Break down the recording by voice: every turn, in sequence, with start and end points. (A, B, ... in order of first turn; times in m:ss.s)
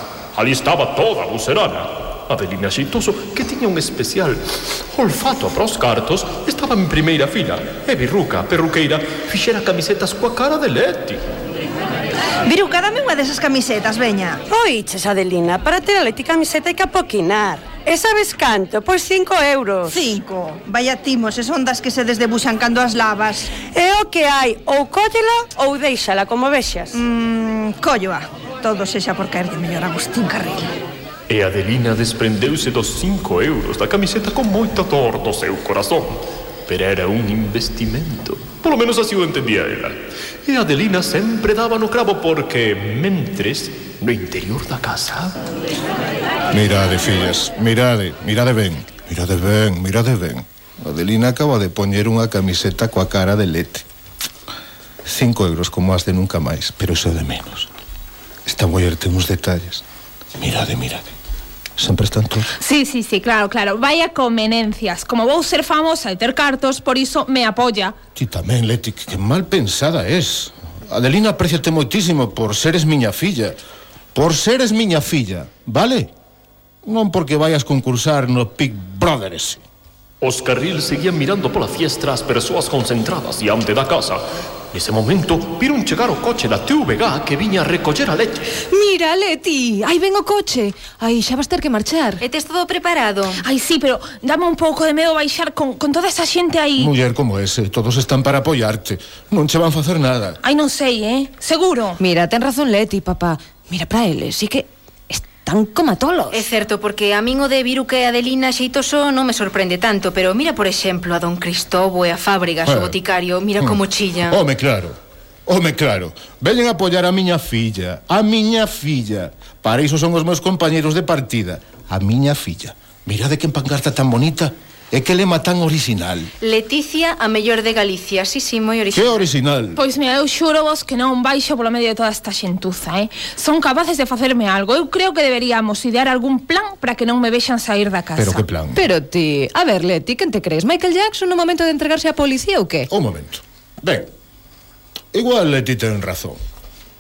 0:00.3-0:11.2 A
0:12.4-0:14.4 B
0:14.5-0:19.9 C
0:19.8-0:23.6 B
0:23.7-0:26.9 C
0:26.9-0:30.7 B
0:31.3-0:45.4 A
0:46.5-0:53.8 D
0:55.0-0:57.7 D
0:58.4-0:59.8 D
1:00.4-1:01.1 D
1:01.8-1:02.5 D
1:02.6-1:07.9 E
1:08.2-1:13.6 D
1:14.1-1:16.1 D
1:16.8-1:19.6 D
1:20.2-1:28.5 A
1:28.7-1:32.2 F
1:32.2-1:33.4 G
1:33.4-1:36.9 E
1:36.8-1:40.4 D
1:40.4-1:42.0 E
1:42.0-1:46.5 F
1:46.3-1:54.4 G
1:52.6-1:53.0 D
1:53.6-2:06.3 D
2:06.4-2:09.2 G
2:08.9-2:09.8 D
2:09.8-2:18.4 E
2:18.2-2:18.8 D
2:18.7-2:22.9 F
2:22.9-2:24.1 D
2:25.1-2:26.4 D